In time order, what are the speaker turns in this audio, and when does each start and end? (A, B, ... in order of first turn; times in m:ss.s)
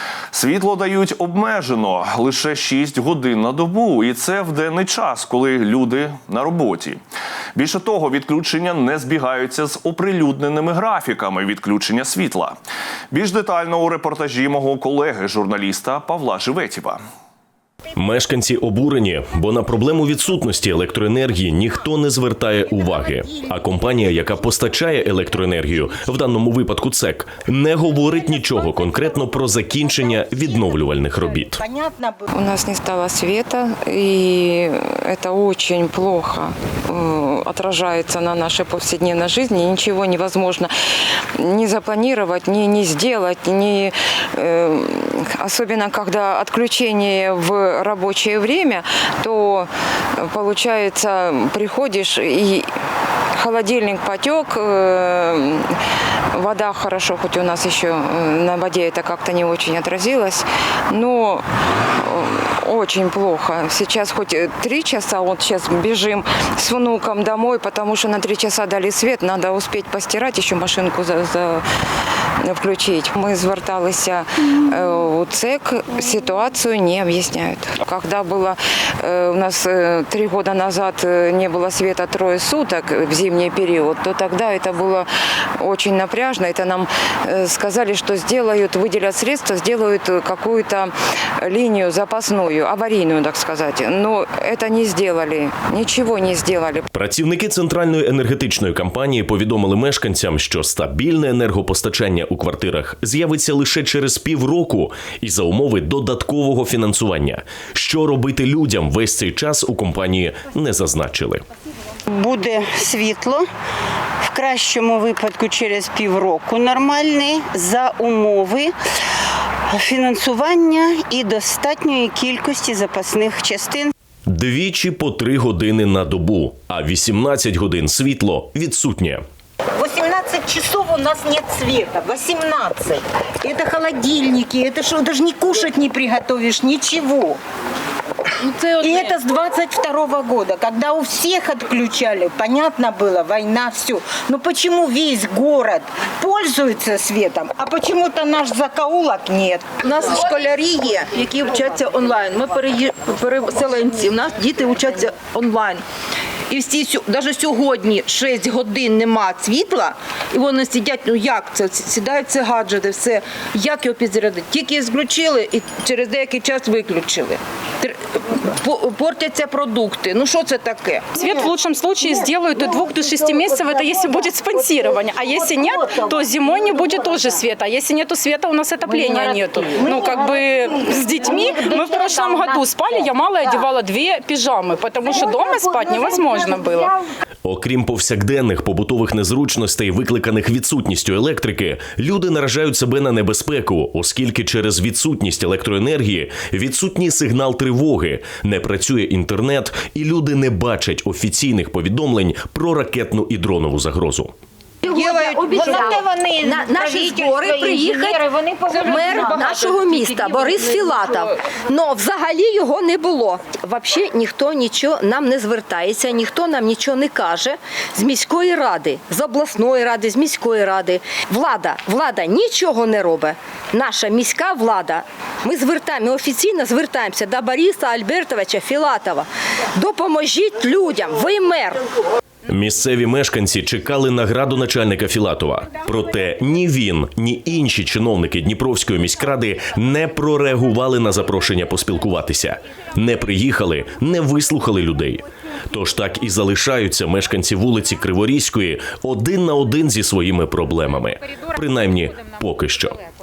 0:00.3-0:07.0 A
0:07.6-0:12.6 A
0:13.1-0:17.0 A
0:18.0-0:31.6 B
0:31.4-0:32.3 C
0:32.3-0:40.7 D
0:41.4-0:52.7 D
0:53.3-0:55.8 D
0:56.3-1:11.6 D
1:12.4-1:36.9 D
1:36.9-1:51.4 B
1:52.1-1:53.5 E
1:54.2-1:58.7 E
1:59.7-2:03.9 E
2:04.3-2:09.2 B
2:09.8-2:17.4 C
2:18.4-2:19.2 F
2:18.8-2:29.7 C
2:29.8-2:35.8 F
2:36.5-2:51.1 F
2:51.1-3:07.0 G
3:07.4-3:24.3 B
3:24.8-3:25.8 H
3:24.8-3:25.9 F
3:25.0-3:29.0 C
3:26.4-3:51.8 H
3:28.7-3:31.2 F
3:52.5-4:13.0 B